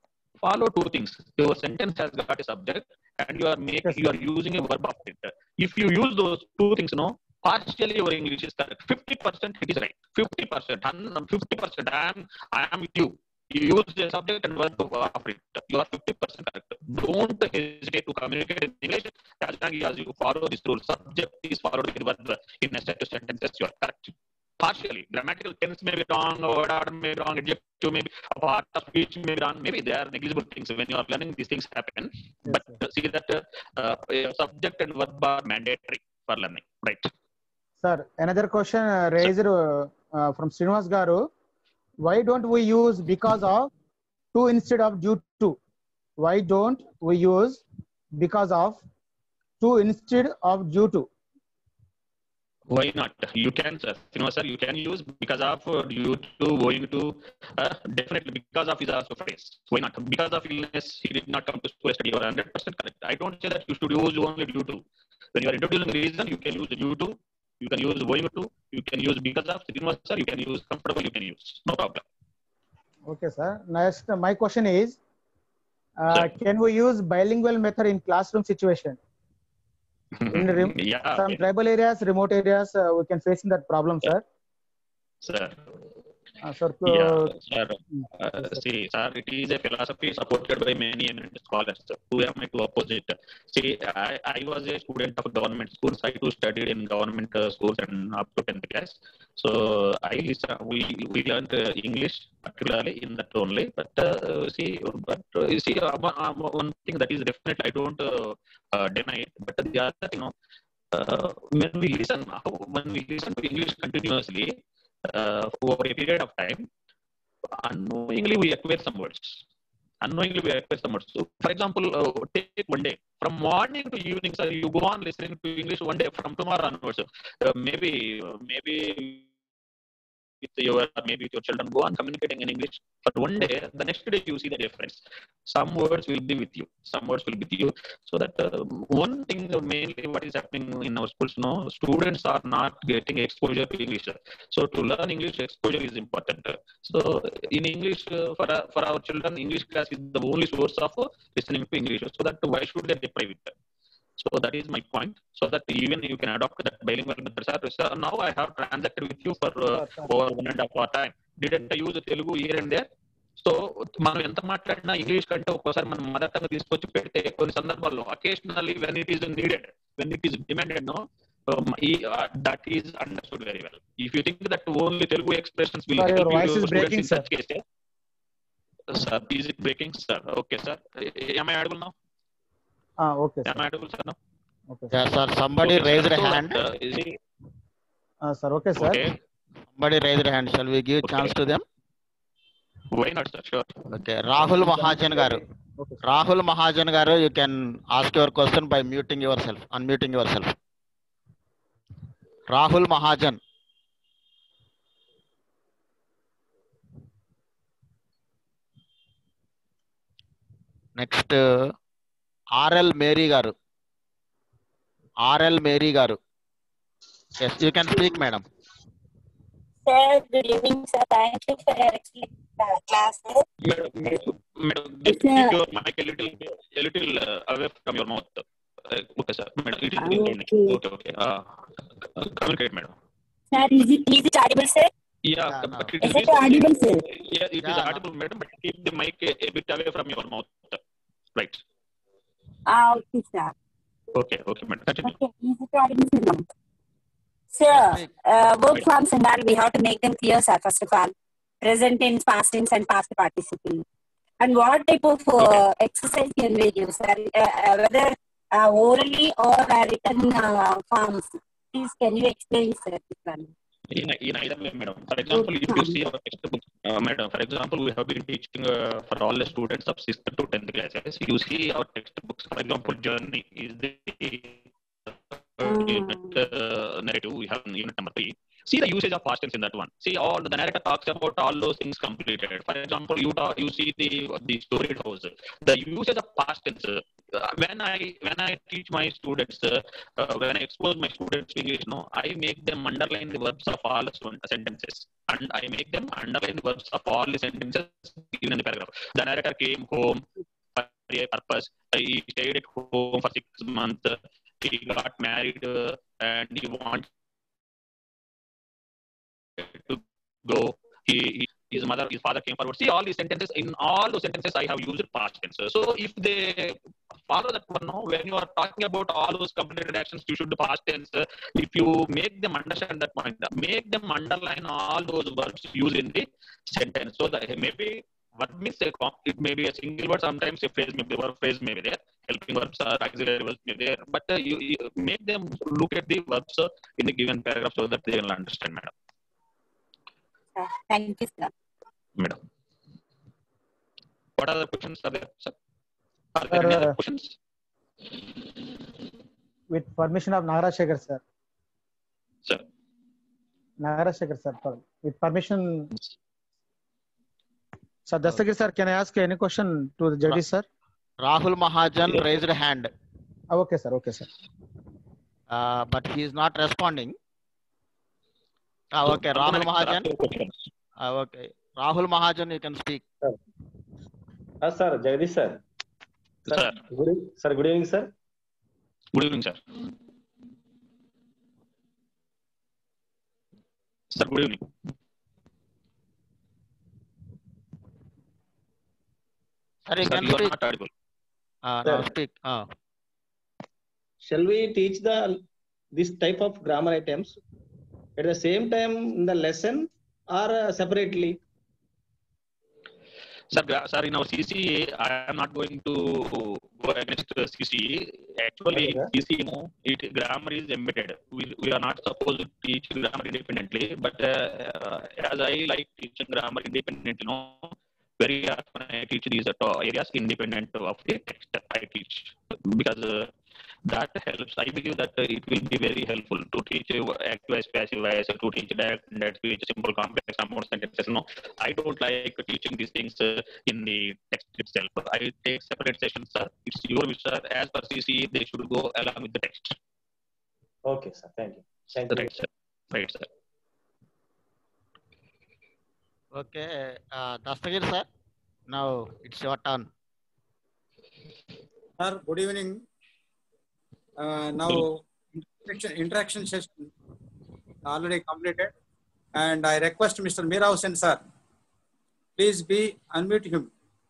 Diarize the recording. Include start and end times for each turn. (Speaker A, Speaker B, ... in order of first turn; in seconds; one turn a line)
Speaker A: 0.4-37.1
Speaker B: 37.8-41.3
Speaker B: 42.0-43.7
Speaker B: 44.3-45.6
Speaker B: 46.2-47.6
Speaker B: 48.1-48.8
Speaker B: 49.6-51.1
Speaker A: 52.7-64.8
Speaker A: 65.3-72.0
Speaker B: 73.0-75.0
Speaker B: 76.0-79.0
Speaker A: 80.2-81.4
Speaker B: 80.3-84.2
Speaker A: 85.2-85.7
Speaker B: 86.4-87.3
Speaker A: 86.8-110.3
Speaker B: 87.9-88.6
Speaker A: 110.9-114.5
Speaker A: 115.1-116.7
Speaker A: 117.5-119.4
Speaker A: 120.0-129.2
Speaker A: 130.4-153.5
Speaker A: 154.2-162.9
Speaker B: 159.7-160.1
Speaker A: 163.4-177.6
Speaker B: 176.0-177.3
Speaker A: 178.9-181.9
Speaker B: 183.0-183.6
Speaker A: 183.4-184.2
Speaker B: 184.7-185.0
Speaker C: 184.9-186.6
Speaker A: 185.6-187.2
Speaker B: 188.2-189.1
Speaker A: 188.8-189.2
Speaker C: 189.7-191.6
Speaker A: 191.0-191.4
Speaker A: 192.9-193.8
Speaker C: 193.9-195.4
Speaker B: 194.6-195.9
Speaker C: 196.0-200.5
Speaker C: 202.5-203.4
Speaker C: 210.9-211.7
Speaker C: 212.5-213.5
Speaker C: 215.2-216.2
Speaker C: 217.4-218.4
Speaker D: 219.8-223.4
Speaker A: 223.6-232.9
Speaker D: 225.1-225.6
Speaker D: 230.0-230.8
Speaker D: 233.5-234.9
Speaker A: 235.2-240.8
Speaker C: 235.5-236.2
Speaker D: 236.0-237.0
Speaker C: 237.6-238.0
Speaker A: 241.3-241.6
Speaker D: 242.7-243.5
Speaker A: 244.1-245.1
Speaker D: 245.0-246.4
Speaker D: 247.5-253.8
Speaker C: 247.7-248.1
Speaker D: 254.4-263.5
Speaker A: 255.4-255.6
Speaker A: 263.9-307.1
Speaker D: 265.3-266.0
Speaker D: 275.6-276.4
Speaker A: 309.6-338.9
Speaker D: 340.6-341.5
Speaker A: 344.4-345.5
Speaker A: 346.3-347.3
Speaker B: 346.5-346.9
Speaker B: 349.7-351.2
Speaker B: 353.8-355.9
Speaker B: 358.1-360.6
Speaker C: 361.2-362.9
Speaker B: 363.5-364.3
Speaker C: 365.5-367.1
Speaker C: 368.9-370.1
Speaker A: 369.0-370.6
Speaker C: 371.0-373.0
Speaker E: 374.6-375.6
Speaker E: 376.5-378.1
Speaker A: 376.5-376.8
Speaker A: 379.1-379.6
Speaker A: 384.1-384.7
Speaker C: 389.9-390.5
Speaker A: 390.0-390.9
Speaker C: 391.6-392.7
Speaker E: 391.8-392.1
Speaker E: 394.2-395.4
Speaker E: 395.9-397.4
Speaker E: 398.2-401.4
Speaker A: 403.5-423.3
Speaker E: 408.7-409.1
Speaker A: 423.9-439.8
Speaker E: 440.8-442.3
Speaker A: 442.0-443.3
Speaker C: 446.3-448.1
Speaker C: 448.7-449.9
Speaker F: 452.0-452.8
Speaker F: 454.2-456.9
Speaker F: 457.9-458.7
Speaker F: 459.4-461.2
Speaker F: 462.4-463.7